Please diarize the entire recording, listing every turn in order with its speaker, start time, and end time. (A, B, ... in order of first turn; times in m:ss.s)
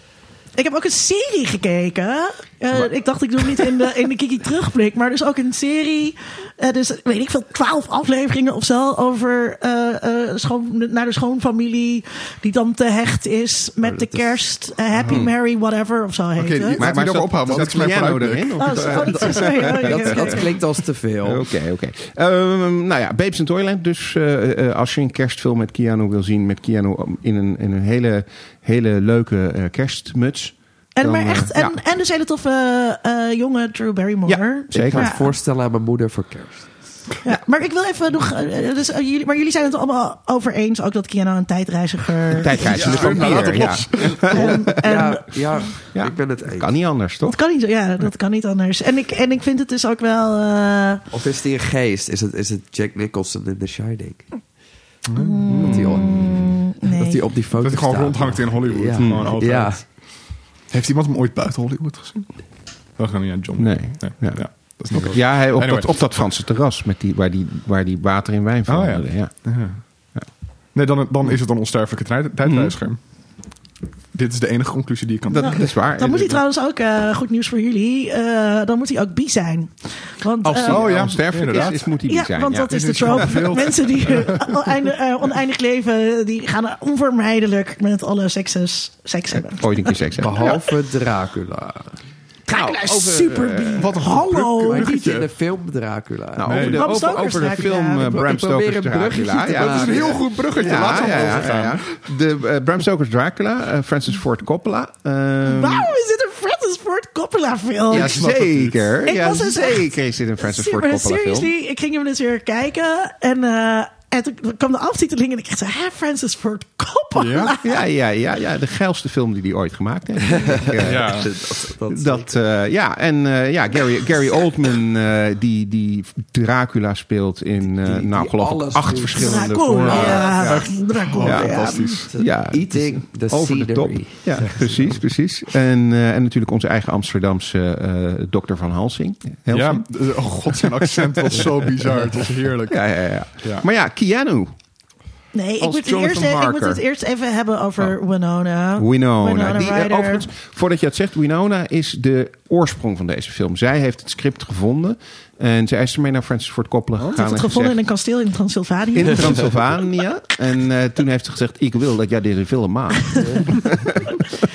0:00.6-0:16.9 A
0:13.8-0:14.4 B
0:15.0-0:15.3 C
0:16.4-0:19.2 D
0:16.8-0:20.5 C
0:18.6-0:20.5 A
0:19.8-0:21.4 B
0:21.2-0:31.8 C
0:31.0-0:35.3 A
0:34.3-0:35.1 C
0:34.7-0:36.7 B
0:37.2-0:43.7 A
0:42.4-0:44.7 C
0:42.5-0:44.6 D
0:44.3-0:45.4 A
0:44.8-0:46.7 B
0:45.9-0:47.4 C
0:47.2-0:51.0 A
0:51.1-0:54.3 B
0:55.0-0:56.4 D
0:55.2-0:57.2 A
0:55.5-0:56.2 C
0:55.6-0:59.8 B
0:57.6-1:00.0 D
0:59.0-0:59.4 C
1:00.7-1:02.3 D
1:03.0-1:05.9 D
1:03.6-1:04.4 C
1:04.9-1:09.3 C
1:08.7-1:09.8 D
1:10.7-1:13.0 D
1:12.4-1:12.8 C
1:14.1-1:15.6 D
1:15.3-1:16.4 C
1:15.3-1:20.9 A
1:20.4-1:23.6 C
1:20.4-1:21.8 D
1:21.4-1:30.6 A
1:22.7-1:24.6 D
1:29.5-1:30.6 C
1:30.2-1:31.9 B
1:32.5-1:35.0 A
1:32.5-1:33.9 C
1:33.8-1:35.3 D
1:34.7-1:36.7 B
1:36.4-1:45.9 C
1:36.4-1:37.0 D
1:36.6-1:38.2 A
1:38.0-1:40.1 B
1:39.4-1:42.0 D
1:40.7-1:41.2 B
1:45.4-1:48.2 A
1:47.9-1:51.5 C
1:47.9-1:48.9 D
1:49.0-1:57.8 A
1:57.1-1:57.5 D
1:57.6-2:10.7 C
2:00.2-2:02.3 B
2:00.8-2:01.2 D
2:07.6-2:10.6 B
2:09.1-2:12.0 A
2:09.9-2:12.1 D
2:11.2-2:19.9 C
2:12.1-2:15.0 B
2:19.5-2:22.8 D
2:20.5-2:22.1 C
2:22.7-2:24.5 C
2:25.3-2:30.2 A
2:25.6-2:26.8 C
2:28.8-2:37.8 C
2:37.1-2:39.7 A
2:38.9-2:44.2 C
2:43.1-2:43.4 A
2:43.2-2:43.6 B